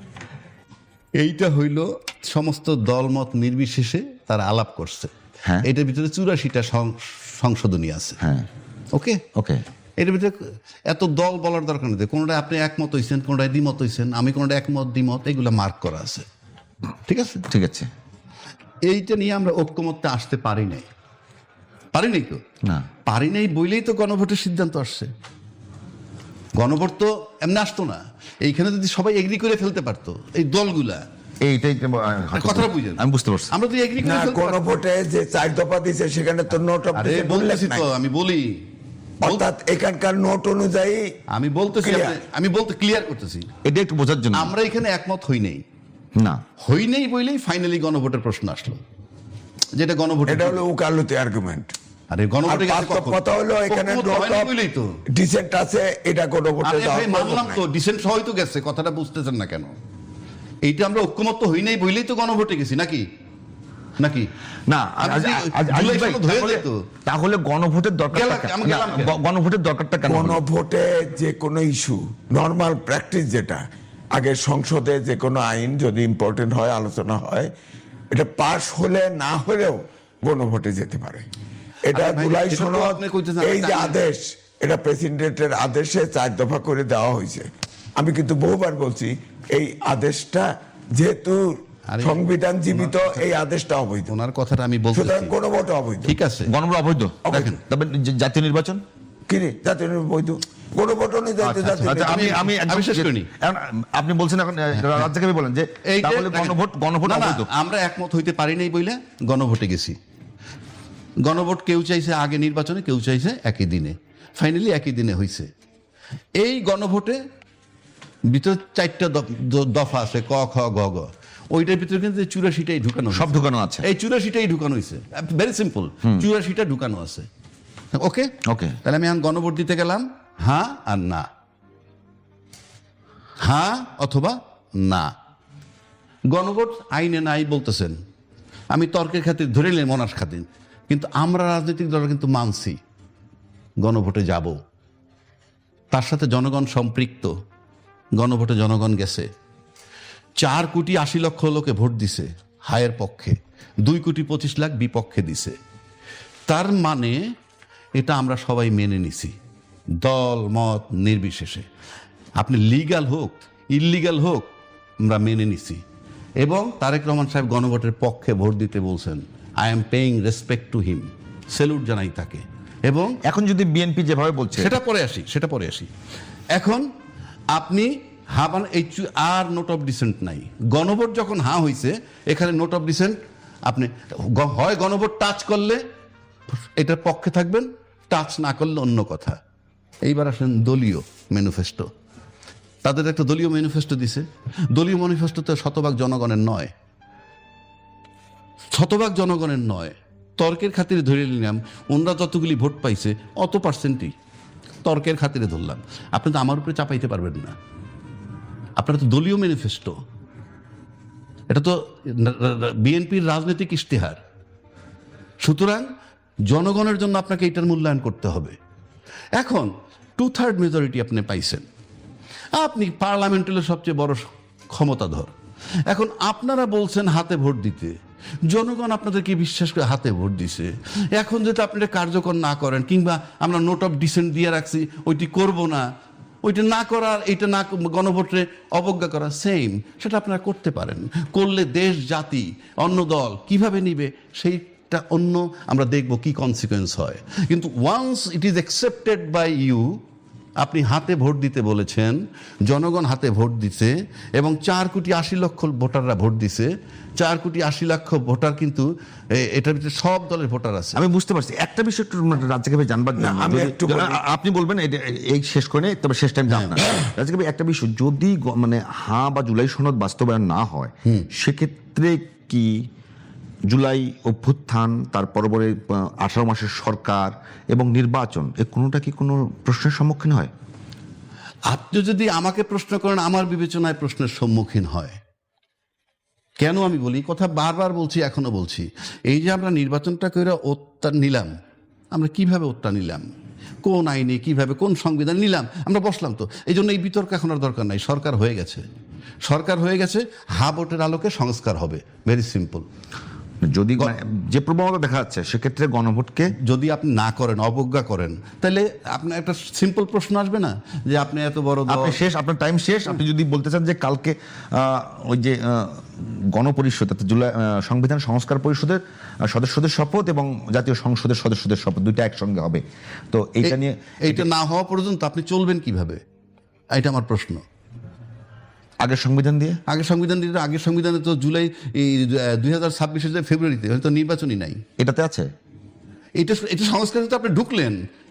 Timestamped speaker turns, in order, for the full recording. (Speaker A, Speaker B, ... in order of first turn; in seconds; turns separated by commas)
Speaker A: 1.2-5.1, Speaker A: 5.6-8.2, Speaker B: 8.2-8.5, Speaker A: 8.9-9.2, Speaker B: 9.3-9.6, Speaker A: 10.0-16.2, Speaker A: 17.1-17.4, Speaker B: 17.5-17.9, Speaker A: 18.9-20.9, Speaker A: 21.9-22.4, Speaker A: 23.1-25.1, Speaker A: 26.6-31.1, Speaker B: 31.4-33.5, Speaker A: 32.3-34.7, Speaker C: 34.0-37.9, Speaker A: 36.9-38.6, Speaker C: 39.2-41.2, Speaker A: 41.3-43.5, Speaker C: 41.7-42.2, Speaker B: 43.6-44.5, Speaker A: 44.3-45.6, Speaker B: 46.2-46.4, Speaker A: 46.6-48.8, Speaker A: 49.8-50.6, Speaker C: 50.3-51.7, Speaker A: 52.1-54.9, Speaker C: 52.5-54.5, Speaker C: 55.1-57.6, Speaker A: 56.6-59.8, Speaker A: 60.6-63.0, Speaker A: 64.0-64.3, Speaker B: 64.7-70.4, Speaker A: 65.0-66.8, Speaker A: 68.1-69.2, Speaker C: 70.1-77.5, Speaker C: 78.1-81.3, Speaker C: 81.9-94.1, Speaker A: 81.9-84.0, Speaker A: 91.9-93.2, Speaker A: 94.1-95.3, Speaker C: 94.9-96.2, Speaker A: 96.1-96.5, Speaker B: 96.5-98.8, Speaker A: 97.3-97.6, Speaker C: 99.3-102.4, Speaker B: 101.4-107.5, Speaker A: 101.7-103.3, Speaker A: 104.8-105.1, Speaker A: 105.9-110.0, Speaker A: 111.2-115.5, Speaker A: 116.4-117.2, Speaker A: 118.3-127.3, Speaker B: 123.1-123.9, Speaker A: 127.9-131.3, Speaker B: 128.5-128.8, Speaker A: 133.4-135.1, Speaker A: 136.3-138.0, Speaker A: 138.7-142.8, Speaker A: 143.8-144.6, Speaker A: 145.9-147.3, Speaker A: 148.2-149.3, Speaker A: 150.4-155.6, Speaker A: 156.5-157.2, Speaker A: 158.0-159.3, Speaker A: 160.0-161.7, Speaker A: 162.4-164.5, Speaker A: 165.0-165.8, Speaker A: 166.4-173.2, Speaker B: 173.2-174.7, Speaker A: 174.6-175.9, Speaker A: 176.5-176.9, Speaker A: 177.5-185.8, Speaker A: 186.8-189.4, Speaker A: 190.1-191.9, Speaker A: 192.8-196.7, Speaker A: 198.7-204.1, Speaker A: 204.8-207.6, Speaker A: 208.8-210.0, Speaker A: 211.5-214.2, Speaker A: 215.4-215.9, Speaker A: 216.5-218.6, Speaker A: 219.4-221.7, Speaker A: 222.6-225.3, Speaker A: 225.9-235.9, Speaker A: 236.4-250.0, Speaker A: 250.6-261.0, Speaker B: 260.9-272.7, Speaker C: 263.2-264.2, Speaker A: 266.5-266.8, Speaker B: 273.7-280.5, Speaker A: 281.7-285.2, Speaker A: 286.6-291.5, Speaker A: 292.1-293.3, Speaker A: 293.8-298.9, Speaker A: 299.4-302.9, Speaker B: 303.6-306.5, Speaker A: 306.6-312.2, Speaker B: 311.9-324.5, Speaker A: 323.6-326.2, Speaker A: 326.9-327.6, Speaker B: 329.0-329.8, Speaker A: 329.9-334.8, Speaker B: 335.0-335.5, Speaker A: 336.4-338.0